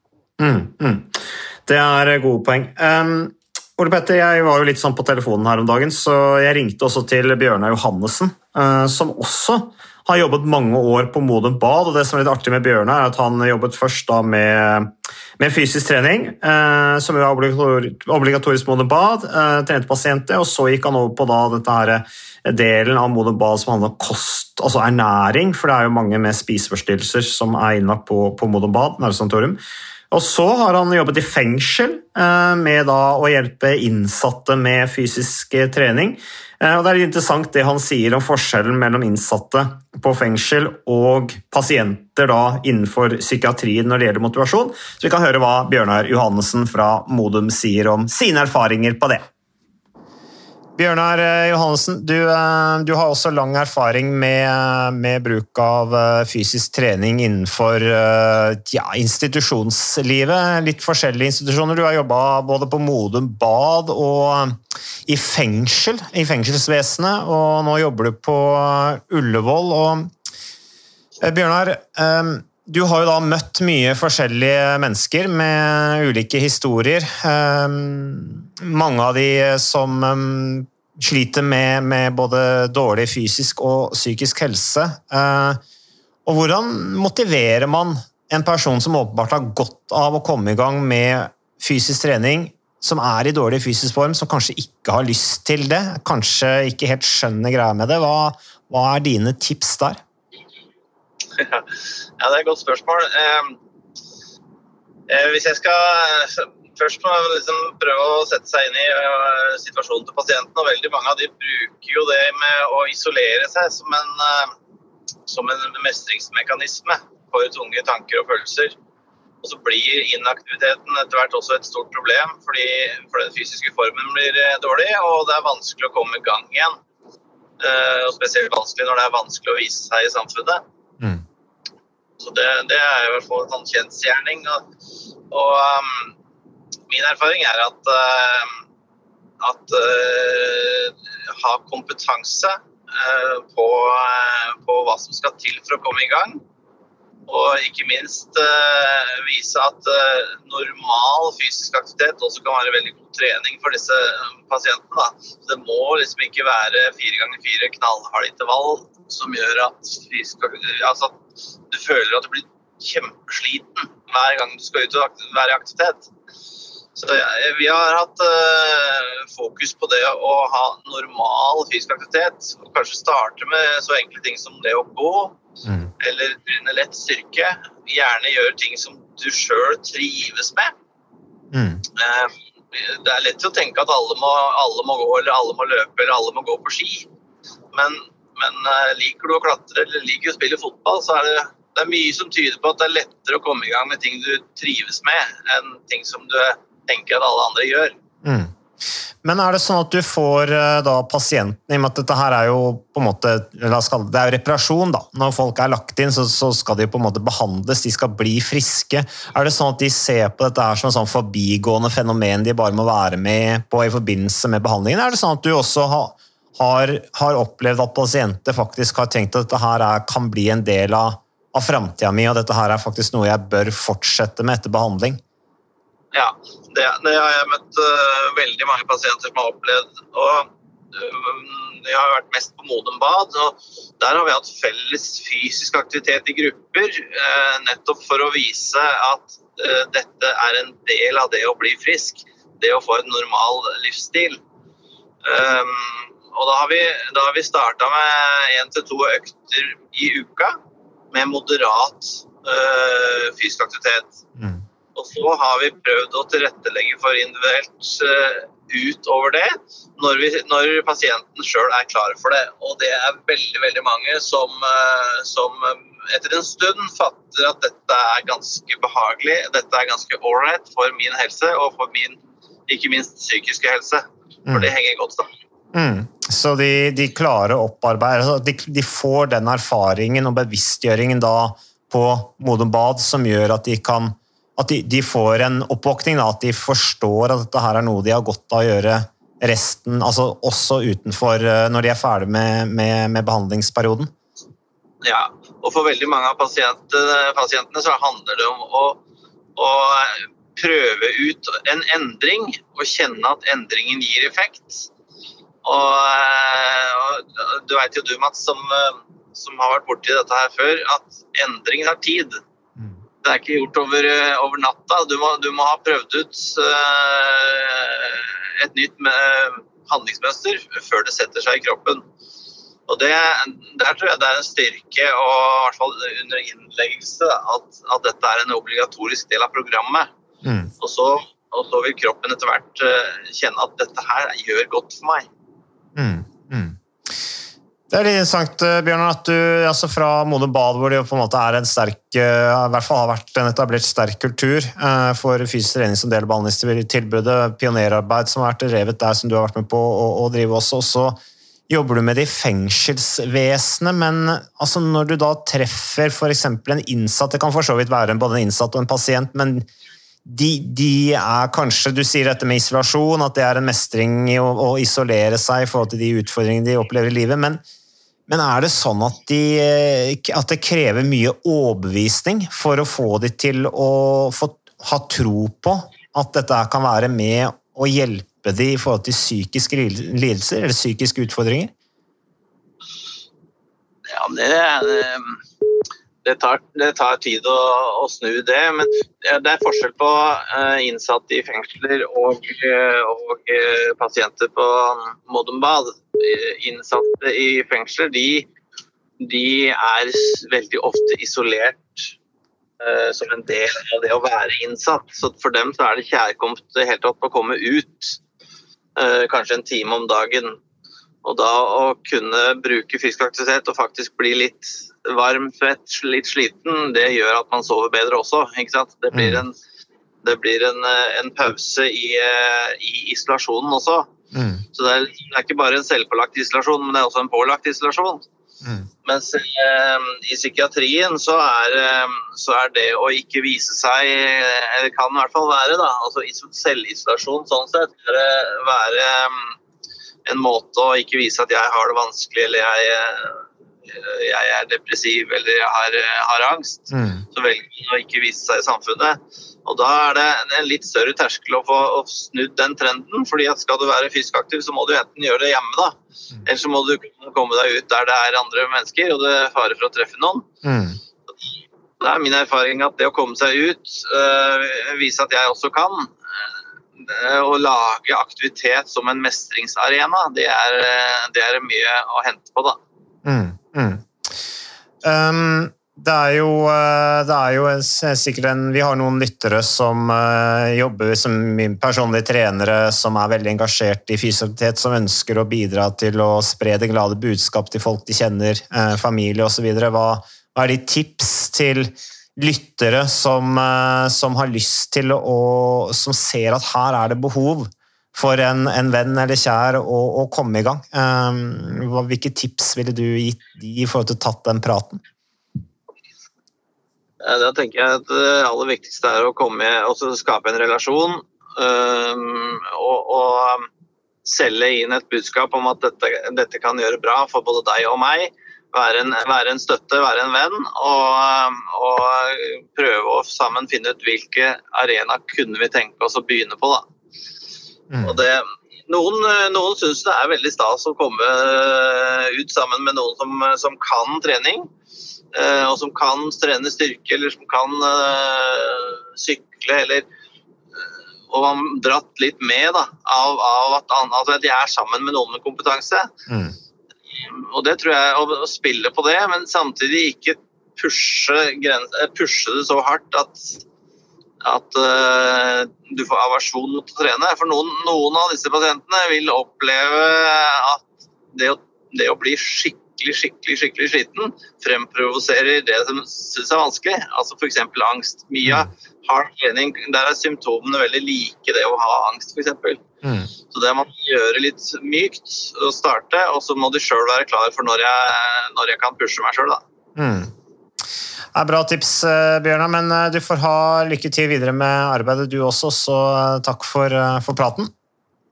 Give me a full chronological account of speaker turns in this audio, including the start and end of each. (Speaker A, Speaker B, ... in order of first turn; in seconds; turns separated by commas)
Speaker A: 0.4-49.2, Speaker A: 50.8-70.1, Speaker A: 71.2-85.6, Speaker A: 86.2-100.0, Speaker B: 101.3-103.6, Speaker B: 105.1-114.5, Speaker B: 115.3-118.7, Speaker B: 119.4-126.8, Speaker B: 127.6-130.6, Speaker B: 132.2-134.7, Speaker B: 135.3-136.1, Speaker B: 136.9-138.6, Speaker B: 139.4-146.4, Speaker B: 147.3-161.2, Speaker B: 161.7-166.1, Speaker B: 166.9-175.4, Speaker A: 175.6-175.9, Speaker B: 176.0-180.7, Speaker A: 181.5-181.8, Speaker B: 181.9-187.1, Speaker B: 187.7-197.9, Speaker A: 198.2-198.5, Speaker A: 199.2-225.2, Speaker B: 226.1-244.4, Speaker B: 245.2-250.6, Speaker B: 251.1-254.2, Speaker B: 254.9-275.3, Speaker A: 275.7-294.1, Speaker B: 295.0-299.0, Speaker B: 299.6-304.9, Speaker B: 305.6-312.4, Speaker B: 313.2-322.0, Speaker B: 322.9-330.1, Speaker A: 330.4-330.7, Speaker B: 330.8-335.3, Speaker A: 335.9-336.8, Speaker A: 337.9-359.7, Speaker A: 360.2-367.6, Speaker A: 368.3-381.7, Speaker B: 384.1-385.4, Speaker B: 386.2-398.5, Speaker B: 399.2-402.1, Speaker B: 402.8-408.2, Speaker B: 408.9-410.6, Speaker B: 411.2-419.6, Speaker A: 419.1-419.4, Speaker B: 420.2-424.1, Speaker A: 424.3-424.6, Speaker B: 424.7-428.2, Speaker A: 428.6-428.9, Speaker B: 429.0-439.5, Speaker B: 440.2-460.5, Speaker A: 446.9-447.2, Speaker A: 460.6-461.0, Speaker B: 462.0-466.1, Speaker B: 467.0-472.8, Speaker A: 473.2-474.4, Speaker A: 475.0-505.0, Speaker B: 507.2-513.7, Speaker B: 514.2-526.9, Speaker A: 527.9-528.2, Speaker B: 528.0-534.7, Speaker B: 535.3-540.1, Speaker B: 540.8-546.1, Speaker A: 546.3-546.5, Speaker B: 547.1-553.6, Speaker B: 554.4-572.8, Speaker A: 573.0-573.3, Speaker B: 573.5-579.6, Speaker A: 580.0-580.3, Speaker A: 581.3-587.7